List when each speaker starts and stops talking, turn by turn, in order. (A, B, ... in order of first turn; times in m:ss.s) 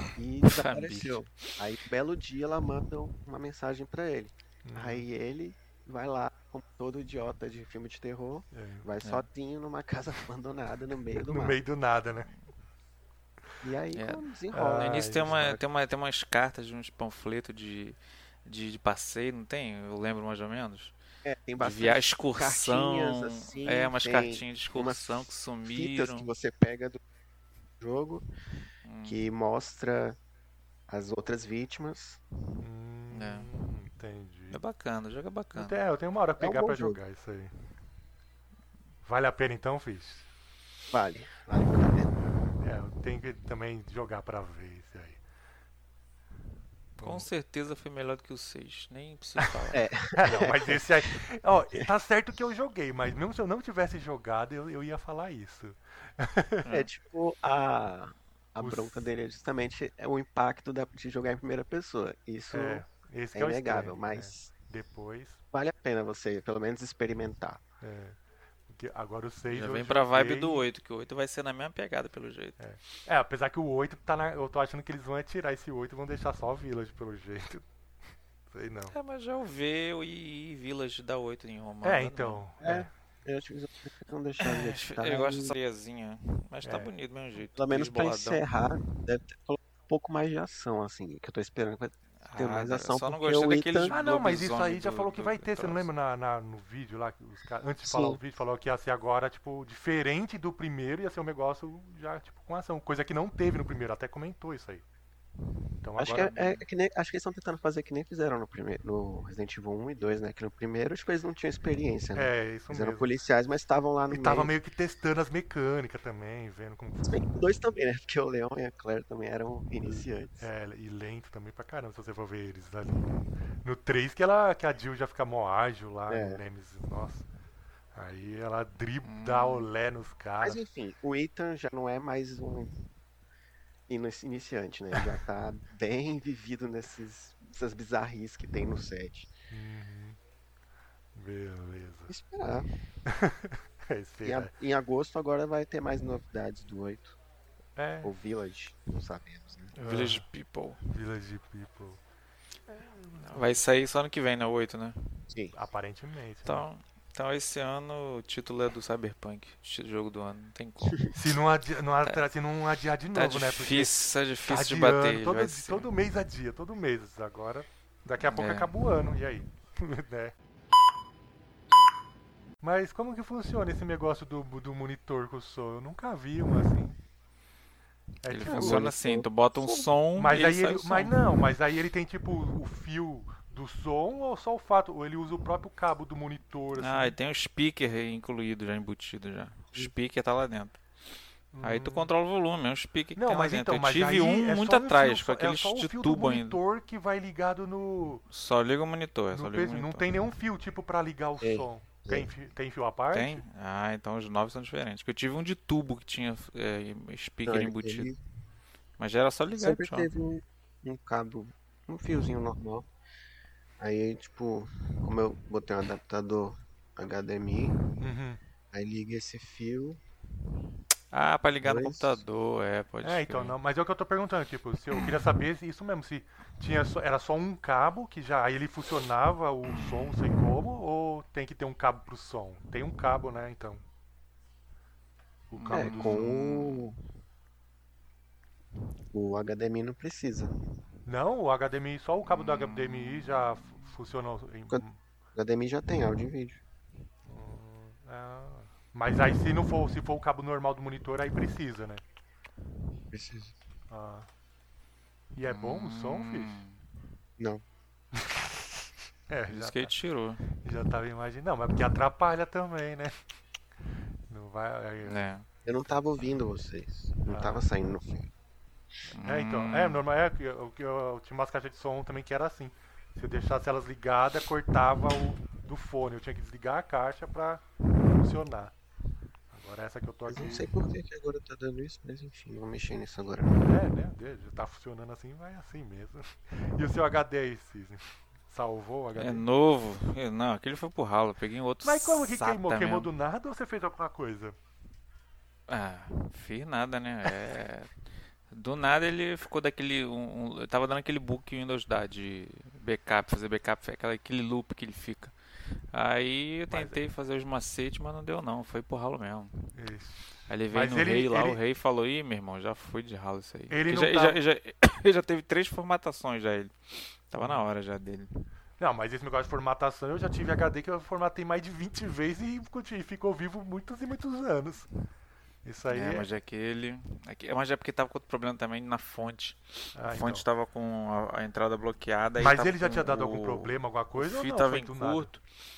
0:00.2-0:11.6 A
0:00.4-0:01.2 B
0:04.6-0:05.1 C
0:08.5-0:08.9 C
0:11.2-0:12.3 C
0:13.6-0:14.8 A
0:13.9-0:21.0 B
0:14.5-0:15.6 C
0:21.2-0:27.0 A
0:21.6-0:26.3 B
0:27.8-0:28.2 A
0:28.8-0:29.2 B
0:29.0-0:30.2 A
0:30.9-0:32.2 A
0:32.6-0:34.6 C
0:33.1-0:33.5 B
0:34.5-0:35.8 B
0:35.6-0:37.5 C
0:36.4-0:37.0 A
0:39.0-0:40.3 C
0:40.9-0:42.1 A
0:42.3-0:45.2 C
0:47.0-0:47.3 C
0:47.0-0:49.8 B
0:49.7-0:50.8 A
0:50.2-0:56.6 C
0:56.7-1:04.5 A
0:58.6-0:59.1 C
1:02.5-1:05.4 C
1:05.5-1:07.6 A
1:07.8-1:08.2 C
1:08.7-1:10.7 C
1:09.5-1:12.6 B
1:12.6-1:17.6 C
1:18.5-1:19.0 C
1:18.9-1:22.4 B
1:21.8-1:22.9 C
1:22.6-1:25.6 A
1:24.4-1:28.4 B
1:26.6-1:26.9 C
1:27.5-1:33.9 A
1:32.2-1:35.9 B
1:33.9-1:44.8 C
1:37.8-1:38.2 A
1:45.8-1:46.6 C
1:46.0-1:54.5 A
1:52.1-1:53.1 C
1:54.1-1:57.2 C
1:57.1-2:00.5 A
2:00.4-2:07.3 C
2:06.1-2:06.4 A
2:08.0-2:10.6 C
2:09.0-2:09.7 B
2:10.4-2:12.7 A
2:13.9-2:19.3 A
2:19.5-2:20.2 C
2:21.2-2:22.1 C
2:22.1-2:22.7 A
2:23.0-2:24.5 C
2:24.2-2:27.2 A
2:27.8-2:28.1 C
2:28.0-2:29.7 A
2:29.7-2:30.8 B
2:29.8-2:30.2 C
2:30.9-2:32.0 C
2:32.7-2:33.5 C
2:33.2-2:35.2 B
2:35.3-2:35.6 A
2:35.5-2:36.6 C
2:36.5-2:41.0 B
2:41.1-2:44.0 C
2:43.1-2:45.9 B
2:44.5-2:50.3 C
2:48.2-2:48.7 B
2:52.6-2:57.0 C
2:58.2-2:58.9 C
2:58.3-3:01.2 B
2:58.5-2:59.8 A
3:00.2-3:07.1 C
3:06.8-3:10.8 B
3:11.5-3:12.1 C
3:11.6-3:16.6 B
3:13.2-3:18.2 C
3:18.3-3:20.1 B
3:19.3-3:23.4 C
3:21.4-3:22.3 A
3:23.1-3:28.1 B
3:27.5-3:28.2 A
3:29.0-3:30.1 B
3:29.6-3:32.9 A
3:33.8-3:37.8 A
3:38.0-3:38.4 C
3:38.7-3:40.0 A
3:41.1-3:43.6 B
3:41.6-3:42.2 A
3:43.0-3:53.8 C
3:49.7-3:50.1 B
3:55.5-3:56.2 C
3:55.6-3:56.9 B
3:55.7-3:57.0 A
3:59.1-4:00.5 A
4:01.1-4:05.0 C
4:02.3-4:03.9 B
4:05.4-4:06.6 A
4:07.3-4:12.0 C
4:13.1-4:13.5 A
4:13.9-4:14.3 C
4:15.4-4:16.6 C
4:15.5-4:16.8 B
4:17.4-4:17.6 A
4:18.1-4:18.8 C
4:19.3-4:19.9 C
4:19.5-4:20.5 B
4:20.6-4:23.2 C
4:24.3-4:25.3 C
4:25.0-4:25.5 B
4:25.6-4:28.3 A
4:27.3-4:27.7 C
4:29.1-4:30.0 B
4:29.1-4:38.7 C
4:39.5-4:40.7 C
4:40.3-4:43.6 A
4:43.6-4:49.4 C
4:49.2-4:53.1 B
4:51.8-4:54.6 C
4:55.7-4:57.9 B
4:58.5-5:05.4 B
5:05.9-5:09.7 B
5:06.7-5:07.0 C
5:09.7-5:11.6 C
5:10.5-5:18.5 B
5:13.7-5:14.4 C
5:17.4-5:17.7 C
5:18.8-5:24.9 C
5:25.6-5:26.3 C
5:25.9-5:35.4 B
5:30.0-5:30.4 C
5:32.4-5:35.3 C